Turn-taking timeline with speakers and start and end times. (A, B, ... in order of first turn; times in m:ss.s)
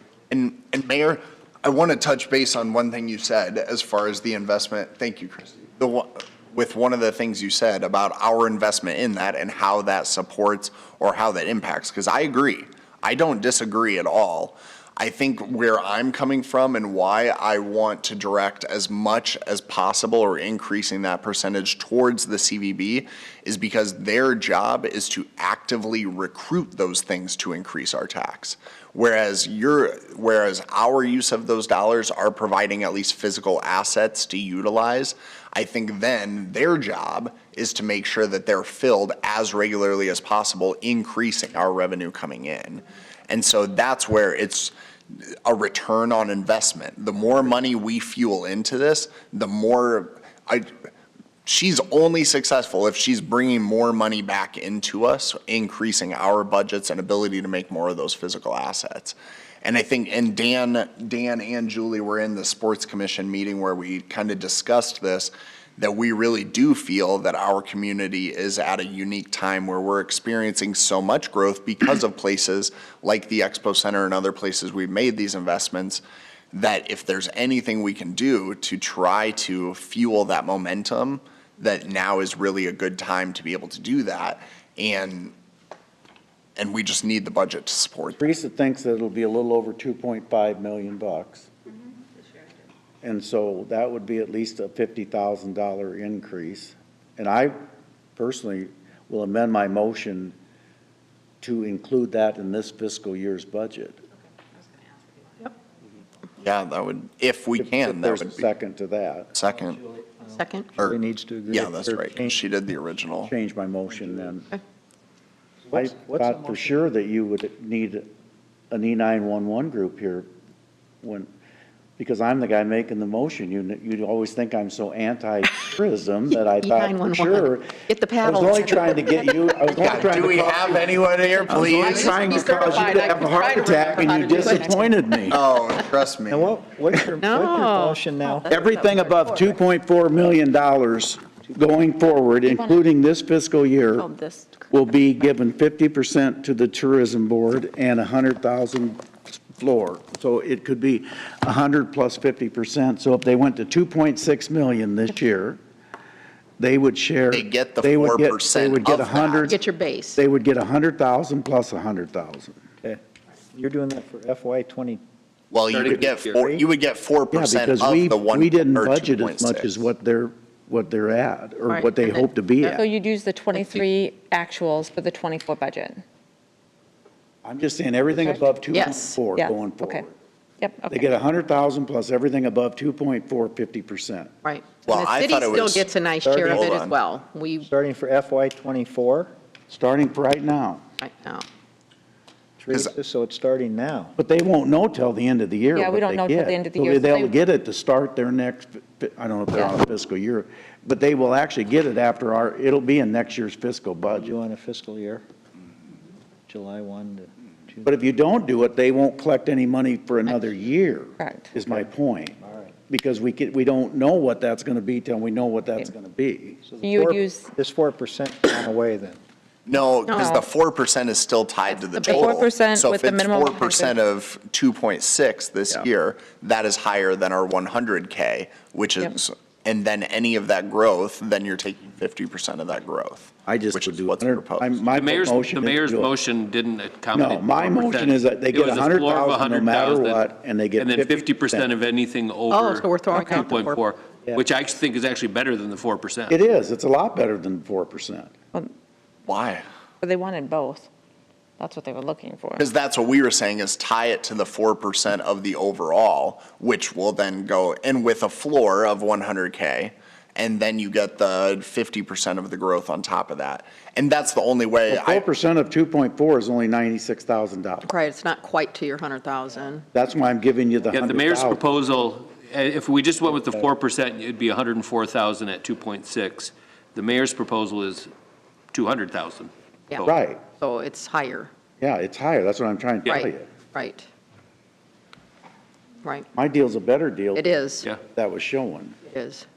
0:00.3-0:50.7 A
0:51.4-1:25.3 A
1:26.6-1:28.2 A
1:28.2-1:31.5 B
1:33.0-1:37.6 B
1:38.2-1:40.3 B
1:41.4-1:44.0 B
1:46.4-1:48.5 A
1:47.6-1:49.3 B
1:49.3-1:49.8 A
1:50.2-1:50.7 C
1:50.7-1:52.4 D
1:51.5-1:53.3 A
1:53.2-1:54.5 B
1:53.9-1:54.3 D
1:55.6-1:56.8 D
1:55.7-1:58.1 B
1:58.7-2:00.3 B
2:01.0-2:01.3 B
2:02.0-2:15.4 B
2:06.5-2:09.7 C
2:09.7-2:12.2 A
2:11.4-2:15.3 C
2:11.8-2:13.1 E
2:13.7-2:14.6 E
2:15.3-2:16.6 A
2:16.3-2:18.8 D
2:17.2-2:19.6 C
2:18.5-2:24.1 B
2:22.5-2:22.8 E
2:24.0-2:24.7 E
2:24.7-2:35.6 B
2:36.6-2:39.6 B
2:37.3-2:39.5 A
2:39.4-2:40.2 C
2:40.2-2:42.6 B
2:43.5-2:45.0 D
2:45.5-2:49.9 A
2:45.7-2:46.4 F
2:46.4-2:46.6 D
2:47.3-2:52.8 B
2:51.7-2:52.7 C
2:52.6-2:56.0 E
2:57.4-3:00.1 B
2:58.7-2:59.2 C
2:59.4-3:00.0 E
3:00.6-3:01.0 E
3:00.9-3:04.3 B
3:04.4-3:07.7 C
3:04.8-3:05.9 A
3:06.2-3:06.6 D
3:06.4-3:06.9 A
3:07.6-3:09.3 D
3:09.7-3:10.8 B
3:11.0-3:11.4 C
3:12.6-3:14.1 D
3:14.2-3:24.3 B
3:15.7-3:17.4 E
3:24.1-3:25.2 D
3:26.5-3:28.1 D
3:27.8-3:32.4 B
3:31.2-3:31.5 E
3:32.9-3:36.6 B
3:36.6-3:39.2 D
3:36.8-3:37.5 E
3:39.7-3:54.8 A
3:40.1-3:40.4 C
3:40.2-3:40.5 E
3:41.7-3:42.4 C
3:42.0-3:44.0 E
3:53.4-3:56.1 B
3:54.9-4:06.4 F
3:57.1-4:01.7 B
4:02.5-4:03.8 C
4:06.3-4:08.3 B
4:09.3-4:09.6 A
4:10.0-4:10.9 E
4:11.6-4:12.7 E
4:12.6-4:25.2 A
4:24.9-4:27.9 B
4:27.8-4:29.8 C
4:29.9-4:31.6 B
4:30.9-4:38.1 F
4:38.7-4:40.1 F
4:39.9-4:41.5 C
4:40.0-4:40.4 B
4:41.8-4:43.5 B
4:43.0-4:44.0 C
4:46.3-4:47.5 B
4:47.4-4:47.9 C
4:48.1-4:49.0 B
4:49.1-4:49.4 C